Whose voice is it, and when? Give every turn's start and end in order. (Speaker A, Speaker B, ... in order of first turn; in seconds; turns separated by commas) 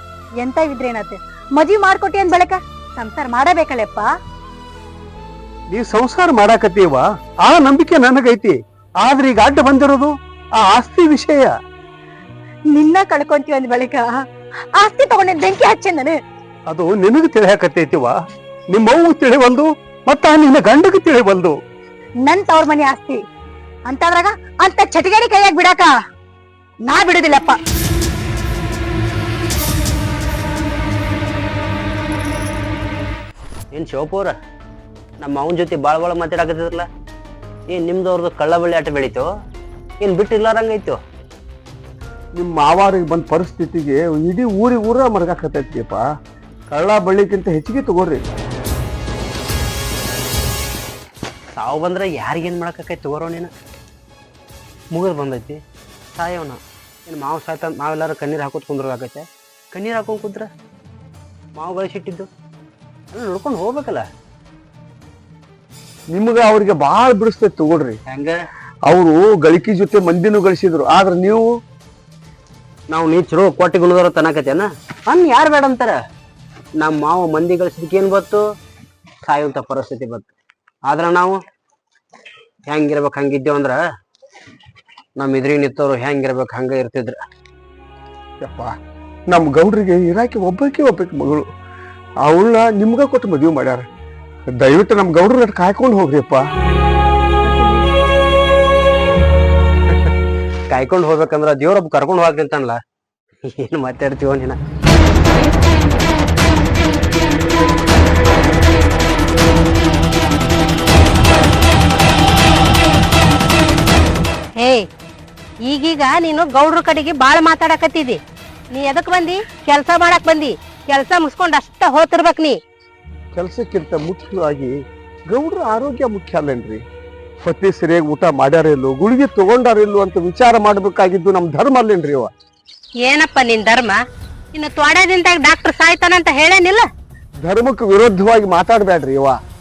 Speaker A: 0.4-4.1, Speaker B: 5.7-11.5, Speaker A: 12.7-14.2, Speaker A: 14.8-16.2, Speaker B: 16.7-21.6, Speaker A: 22.2-23.2, Speaker A: 23.9-25.9, Speaker A: 26.8-27.6, Speaker C: 33.7-34.4, Speaker C: 35.2-36.9, Speaker C: 37.7-39.3, Speaker C: 40.0-41.0, Speaker D: 42.4-46.0, Speaker D: 46.7-48.2, Speaker C: 51.5-53.5, Speaker C: 54.9-55.6, Speaker C: 56.1-60.5, Speaker C: 61.5-62.3, Speaker C: 63.1-64.1, Speaker D: 66.1-68.0, Speaker C: 68.1-68.3, Speaker D: 68.8-71.5, Speaker C: 72.9-76.0, Speaker C: 76.8-78.4, Speaker C: 79.2-80.3, Speaker C: 80.9-81.4, Speaker C: 82.7-83.8, Speaker C: 85.2-87.2, Speaker D: 88.4-88.7, Speaker D: 89.3-91.5, Speaker D: 92.2-93.8, Speaker D: 94.5-96.4, Speaker C: 100.7-102.8, Speaker C: 103.4-104.6, Speaker E: 114.6-114.8, Speaker E: 115.6-118.2, Speaker E: 118.7-122.6, Speaker D: 123.3-124.7, Speaker D: 125.3-126.8, Speaker D: 127.4-132.3, Speaker E: 133.0-134.0, Speaker E: 134.5-136.9, Speaker D: 137.4-139.4